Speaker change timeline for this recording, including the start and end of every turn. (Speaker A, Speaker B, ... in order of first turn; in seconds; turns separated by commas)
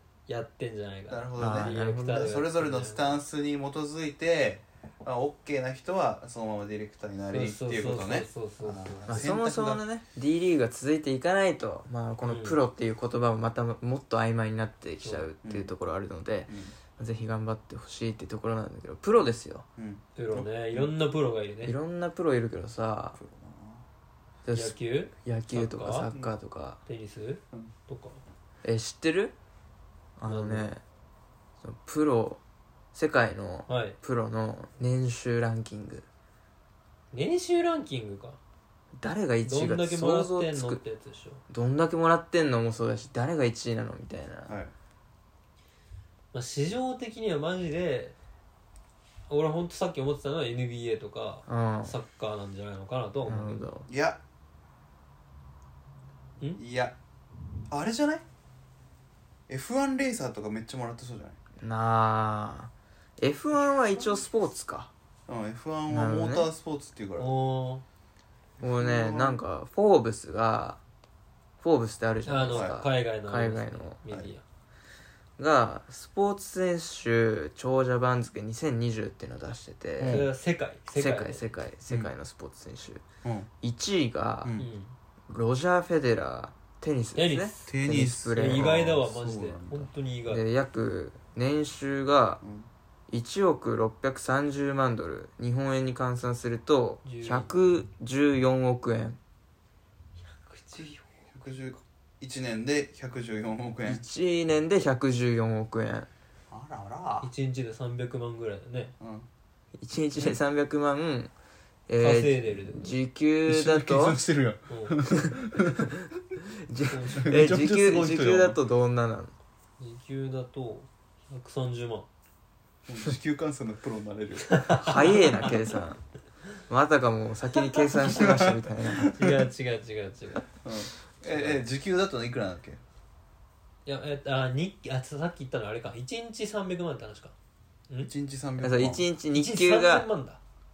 Speaker A: 0.3-3.2, Speaker B: 1.1-9.8, Speaker C: 1.4-2.3, Speaker A: 7.3-9.2, Speaker C: 9.1-19.6, Speaker A: 12.2-12.6, Speaker B: 15.4-15.7, Speaker B: 16.5-16.8, Speaker B: 19.8-20.9, Speaker A: 20.2-21.8, Speaker C: 21.6-23.2, Speaker B: 23.2-23.8, Speaker C: 24.4-26.8, Speaker A: 24.5-26.1, Speaker A: 26.9-28.2, Speaker C: 28.6-29.4, Speaker C: 30.2-30.8, Speaker A: 30.2-30.7, Speaker C: 31.6-32.4, Speaker C: 32.9-36.1, Speaker A: 33.7-34.0, Speaker A: 37.1-38.4, Speaker C: 39.0-40.8, Speaker A: 39.5-41.4, Speaker C: 41.5-44.5, Speaker A: 46.3-48.1, Speaker A: 49.3-53.6, Speaker C: 51.5-52.0, Speaker C: 53.3-53.9, Speaker B: 53.9-54.2, Speaker B: 56.6-57.0, Speaker B: 57.7-58.2, Speaker B: 59.5-61.4, Speaker C: 61.6-64.9, Speaker B: 65.3-67.3, Speaker C: 65.9-66.5, Speaker A: 67.2-67.8, Speaker B: 68.6-69.4, Speaker C: 68.6-70.8, Speaker C: 71.6-74.0, Speaker A: 72.3-74.4, Speaker B: 72.5-72.8, Speaker C: 75.4-80.2, Speaker B: 80.0-80.3, Speaker A: 80.1-81.5, Speaker C: 80.9-83.0, Speaker B: 83.2-83.5, Speaker C: 83.6-84.6, Speaker A: 84.6-84.9, Speaker C: 85.3-88.8, Speaker A: 87.2-87.7, Speaker B: 87.7-89.9, Speaker A: 88.3-90.4, Speaker C: 90.3-92.4, Speaker B: 92.4-92.7, Speaker C: 93.1-99.2, Speaker A: 97.0-97.5, Speaker A: 100.2-101.3, Speaker B: 101.3-104.0, Speaker C: 103.8-106.1, Speaker B: 106.5-107.3, Speaker A: 107.2-108.9, Speaker B: 109.0-109.3, Speaker C: 109.8-111.3, Speaker C: 111.9-114.2, Speaker A: 112.0-112.9, Speaker B: 113.5-116.4, Speaker A: 114.7-115.0, Speaker C: 116.5-119.3, Speaker A: 116.9-117.2, Speaker B: 117.1-118.6, Speaker A: 119.8-122.1, Speaker B: 122.9-124.7, Speaker A: 124.5-125.6, Speaker C: 124.8-126.0, Speaker C: 126.7-129.1, Speaker B: 128.0-129.4, Speaker A: 129.2-130.5, Speaker B: 130.6-132.8, Speaker A: 131.2-131.6, Speaker A: 133.9-137.3, Speaker B: 138.0-139.1, Speaker C: 138.6-140.1, Speaker A: 139.3-140.4